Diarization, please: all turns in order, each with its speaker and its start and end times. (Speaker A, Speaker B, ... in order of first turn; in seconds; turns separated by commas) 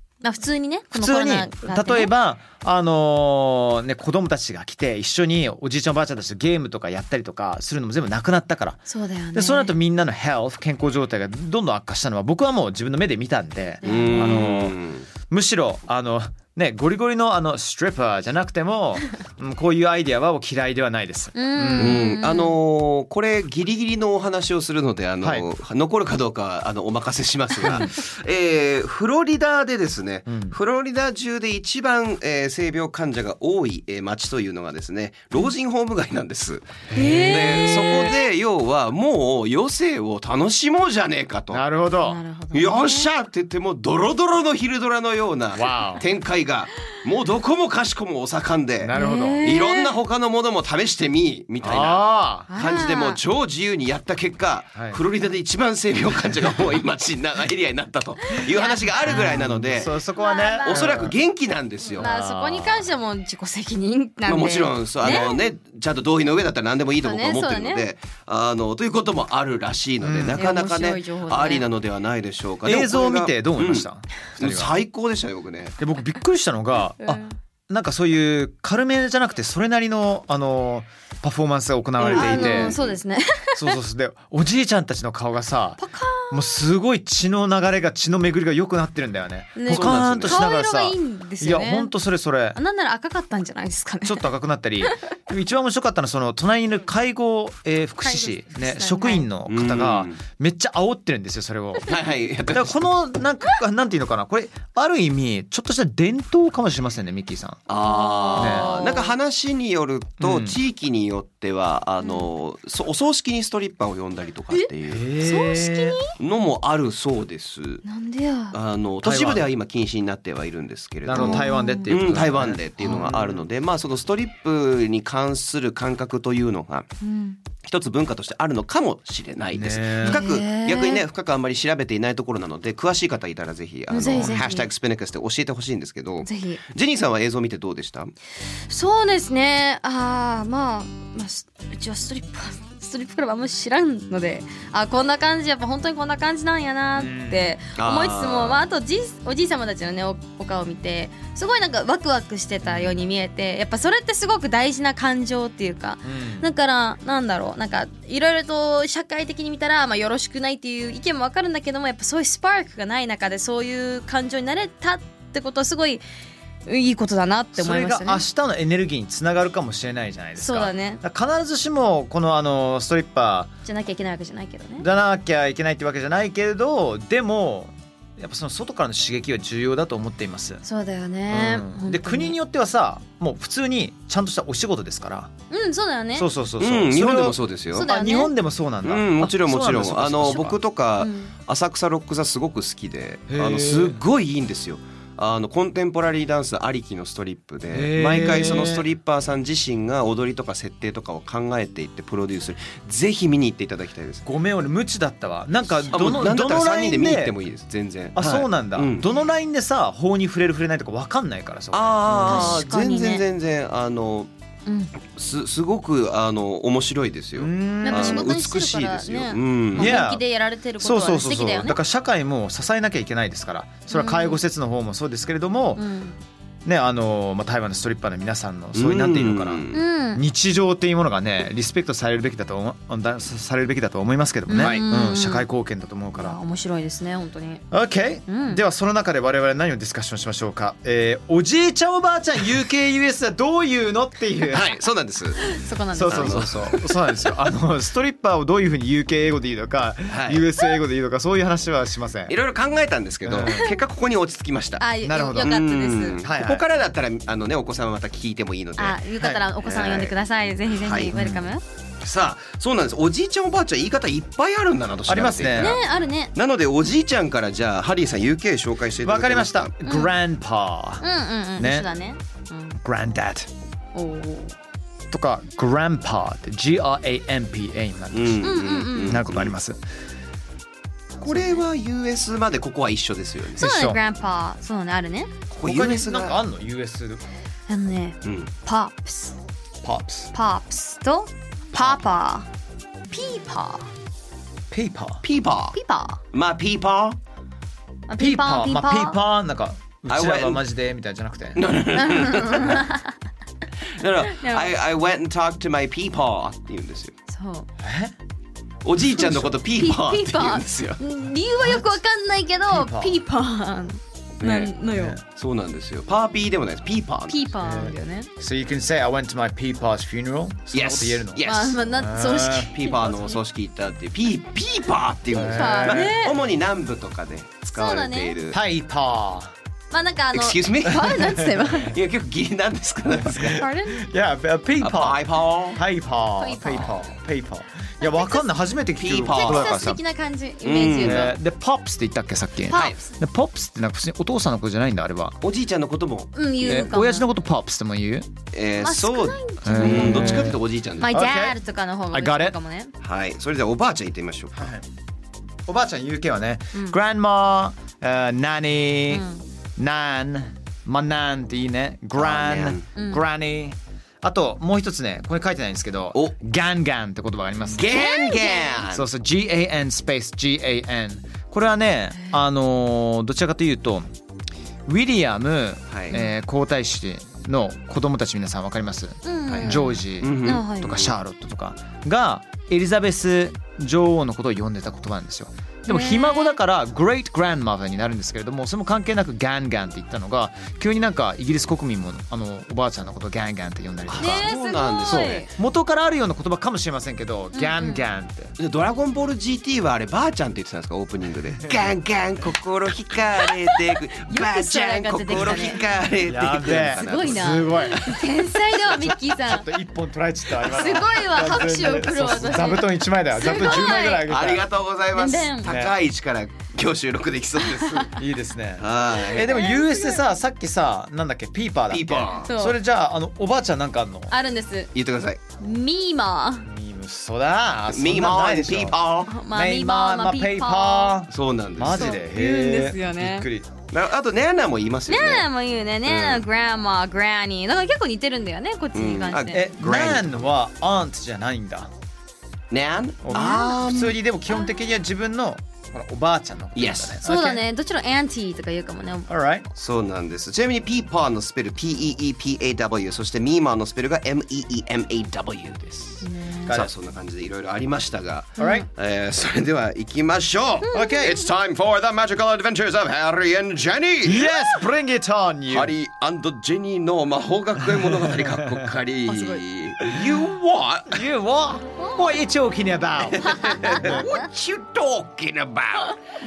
Speaker A: 0.2-2.1, Speaker B: 0.9-14.8, Speaker A: 8.9-9.7, Speaker A: 13.8-14.5, Speaker C: 13.8-15.1, Speaker B: 15.3-22.1, Speaker A: 21.3-22.6, Speaker C: 21.8-41.6, Speaker B: 25.2-25.5, Speaker B: 30.3-30.6, Speaker B: 36.9-38.1, Speaker A: 36.9-38.1, Speaker B: 41.5-42.2, Speaker A: 42.0-43.1, Speaker C: 42.5-59.9, Speaker B: 45.5-46.0, Speaker B: 48.8-49.5, Speaker A: 48.9-50.0, Speaker B: 51.6-52.5, Speaker A: 52.5-53.2, Speaker B: 54.7-55.0, Speaker A: 58.4-61.0, Speaker B: 59.1-61.2, Speaker C: 60.6-62.1, Speaker A: 61.9-65.5, Speaker B: 62.0-62.9, Speaker C: 64.2-73.9, Speaker B: 65.0-65.3, Speaker A: 67.0-67.9, Speaker B: 70.0-70.4, Speaker A: 70.4-71.7, Speaker B: 72.6-74.8, Speaker C: 74.4-75.7, Speaker B: 75.8-82.8, Speaker A: 77.0-77.3, Speaker C: 82.0-83.0, Speaker A: 82.0-83.7, Speaker B: 83.5-92.6, Speaker A: 85.8-86.4, Speaker A: 89.5-91.9, Speaker C: 89.7-90.4, Speaker A: 92.5-94.2, Speaker B: 94.0-107.7, Speaker A: 98.0-99.3, Speaker C: 99.5-100.2, Speaker C: 101.8-102.8, Speaker C: 107.7-115.1, Speaker A: 107.7-109.2, Speaker B: 108.3-108.8, Speaker B: 110.2-110.6, Speaker A: 112.0-112.3, Speaker A: 114.5-116.1, Speaker B: 114.9-116.0, Speaker C: 116.2-117.8, Speaker A: 117.8-118.5, Speaker C: 118.5-126.9, Speaker B: 119.0-119.5, Speaker B: 121.0-123.4, Speaker A: 121.1-122.0, Speaker A: 122.8-123.1, Speaker A: 127.0-127.4, Speaker C: 127.6-138.1, Speaker B: 129.5-130.3, Speaker A: 130.0-131.1, Speaker A: 133.9-134.7, Speaker B: 134.1-134.4, Speaker A: 136.2-136.6, Speaker A: 138.7-166.0, Speaker B: 146.9-147.6, Speaker C: 147.7-148.6, Speaker B: 152.6-153.0, Speaker B: 156.0-156.5, Speaker A: 166.7-168.2, Speaker B: 167.5-173.5, Speaker A: 170.3-171.0, Speaker A: 173.6-174.8, Speaker B: 174.8-180.6, Speaker A: 180.6-182.3, Speaker B: 181.3-185.3, Speaker A: 185.5-186.3, Speaker B: 186.1-190.6, Speaker C: 186.6-187.9, Speaker A: 187.7-188.3, Speaker C: 188.8-204.2, Speaker A: 191.0-191.3, Speaker B: 193.3-194.0, Speaker B: 197.7-198.9, Speaker B: 204.2-207.3, Speaker C: 205.9-209.1, Speaker B: 208.1-212.7, Speaker C: 211.7-214.3, Speaker A: 212.2-213.2, Speaker A: 214.7-214.9, Speaker C: 215.0-220.0, Speaker B: 217.3-218.3, Speaker A: 217.8-221.8, Speaker B: 219.7-220.2, Speaker B: 220.8-225.8, Speaker A: 223.9-224.4, Speaker A: 225.8-226.2, Speaker B: 226.6-236.4, Speaker C: 228.7-229.8, Speaker A: 229.7-230.2, Speaker A: 234.5-235.5, Speaker C: 234.6-234.8, Speaker A: 236.1-237.6, Speaker B: 237.7-244.7, Speaker A: 238.3-238.6, Speaker C: 244.5-245.4, Speaker A: 245.3-246.5, Speaker B: 245.9-252.3, Speaker C: 246.1-246.9, Speaker C: 250.1-250.4, Speaker C: 252.3-254.9, Speaker B: 253.2-253.8, Speaker A: 254.8-256.2, Speaker B: 255.0-255.6, Speaker C: 255.4-259.0, Speaker B: 256.2-256.6, Speaker A: 258.8-261.6, Speaker B: 259.2-259.4, Speaker C: 259.6-260.2, Speaker C: 260.7-261.1, Speaker B: 261.1-261.5, Speaker C: 262.0-265.8, Speaker B: 265.1-265.8, Speaker A: 265.6-266.4, Speaker C: 266.3-269.7, Speaker B: 269.0-271.9, Speaker A: 269.8-270.1, Speaker A: 271.0-272.8, Speaker B: 272.8-273.5, Speaker A: 273.9-274.5, Speaker B: 275.1-279.8, Speaker C: 278.1-279.5, Speaker A: 278.4-279.2, Speaker C: 281.2-283.7, Speaker A: 283.6-285.3, Speaker B: 283.6-284.0, Speaker C: 285.5-286.4, Speaker B: 285.6-287.2, Speaker A: 287.7-289.4, Speaker C: 288.2-288.5, Speaker B: 289.8-290.3, Speaker A: 290.3-292.5, Speaker B: 291.7-292.0, Speaker A: 293.1-293.9, Speaker B: 294.7-295.2, Speaker C: 295.2-295.8, Speaker A: 295.7-296.2, Speaker C: 296.3-297.2, Speaker A: 298.1-299.2, Speaker B: 298.2-301.6, Speaker C: 300.1-300.6, Speaker C: 301.6-302.8, Speaker A: 302.0-303.1, Speaker C: 304.0-307.1, Speaker A: 304.3-304.7, Speaker A: 307.3-307.7, Speaker B: 307.8-308.1, Speaker C: 308.8-311.0, Speaker A: 309.3-315.2, Speaker B: 311.6-312.0, Speaker B: 312.7-313.2, Speaker C: 314.4-314.7, Speaker B: 314.9-315.2, Speaker C: 315.3-317.5, Speaker A: 317.3-318.3, Speaker B: 317.6-322.7, Speaker C: 320.7-321.9, Speaker A: 321.4-323.4, Speaker C: 322.7-328.6, Speaker B: 325.3-326.2, Speaker A: 325.3-326.4, Speaker A: 327.7-328.4, Speaker B: 328.5-329.5, Speaker A: 329.9-331.9, Speaker C: 330.3-333.6, Speaker B: 331.0-331.4, Speaker B: 333.1-340.0, Speaker A: 333.5-334.0, Speaker C: 334.8-335.8, Speaker A: 336.4-337.1, Speaker A: 338.0-338.5, Speaker C: 338.9-339.9, Speaker A: 339.3-341.4, Speaker C: 340.6-341.3, Speaker B: 341.0-345.4, Speaker A: 342.7-343.1, Speaker C: 345.4-346.9, Speaker A: 346.3-347.3, Speaker B: 346.6-348.3, Speaker C: 348.5-351.1, Speaker A: 348.8-352.9, Speaker B: 349.6-351.6, Speaker B: 352.1-352.6, Speaker C: 353.0-354.7, Speaker B: 354.5-354.9, Speaker B: 355.7-359.2, Speaker A: 359.1-359.4, Speaker B: 359.8-368.0, Speaker C: 362.1-362.9, Speaker A: 362.9-363.2, Speaker C: 367.7-369.1, Speaker A: 367.7-368.9, Speaker B: 368.9-374.1, Speaker B: 374.9-394.5, Speaker C: 375.9-376.2, Speaker A: 379.2-380.9, Speaker C: 379.5-381.1, Speaker A: 385.9-386.6, Speaker C: 394.1-395.5, Speaker A: 394.2-395.5, Speaker B: 395.0-398.5, Speaker A: 397.5-398.1, Speaker C: 398.6-408.2, Speaker A: 404.2-405.9, Speaker B: 405.4-405.6, Speaker B: 406.2-408.1, Speaker A: 406.6-409.7, Speaker B: 408.9-414.6, Speaker A: 410.6-414.3, Speaker C: 413.6-418.1, Speaker A: 415.1-415.7, Speaker B: 415.6-415.9, Speaker A: 417.6-418.1, Speaker B: 418.1-424.4, Speaker C: 418.8-419.6, Speaker A: 419.2-420.2, Speaker C: 421.9-422.5, Speaker A: 422.4-422.8, Speaker A: 424.3-424.9, Speaker C: 424.9-425.4, Speaker A: 425.6-426.7, Speaker B: 426.6-429.0, Speaker C: 427.9-429.3, Speaker A: 429.3-431.2, Speaker B: 429.5-433.7, Speaker C: 431.3-432.2, Speaker A: 431.8-433.5, Speaker C: 433.9-435.5, Speaker A: 435.1-439.7, Speaker C: 436.0-436.4, Speaker C: 438.9-440.5, Speaker B: 439.5-441.9, Speaker C: 442.7-444.1, Speaker B: 443.2-447.6, Speaker A: 443.3-443.8, Speaker C: 446.7-447.2, Speaker A: 447.2-449.3, Speaker B: 449.3-449.7, Speaker C: 449.7-464.8, Speaker A: 456.2-456.7, Speaker B: 456.6-456.9, Speaker A: 458.6-458.8, Speaker B: 458.6-458.9, Speaker A: 460.8-461.5, Speaker B: 460.9-461.4, Speaker B: 464.2-465.9, Speaker C: 465.7-471.2, Speaker B: 468.2-468.7, Speaker A: 469.3-469.6, Speaker B: 471.1-474.2, Speaker C: 473.3-476.2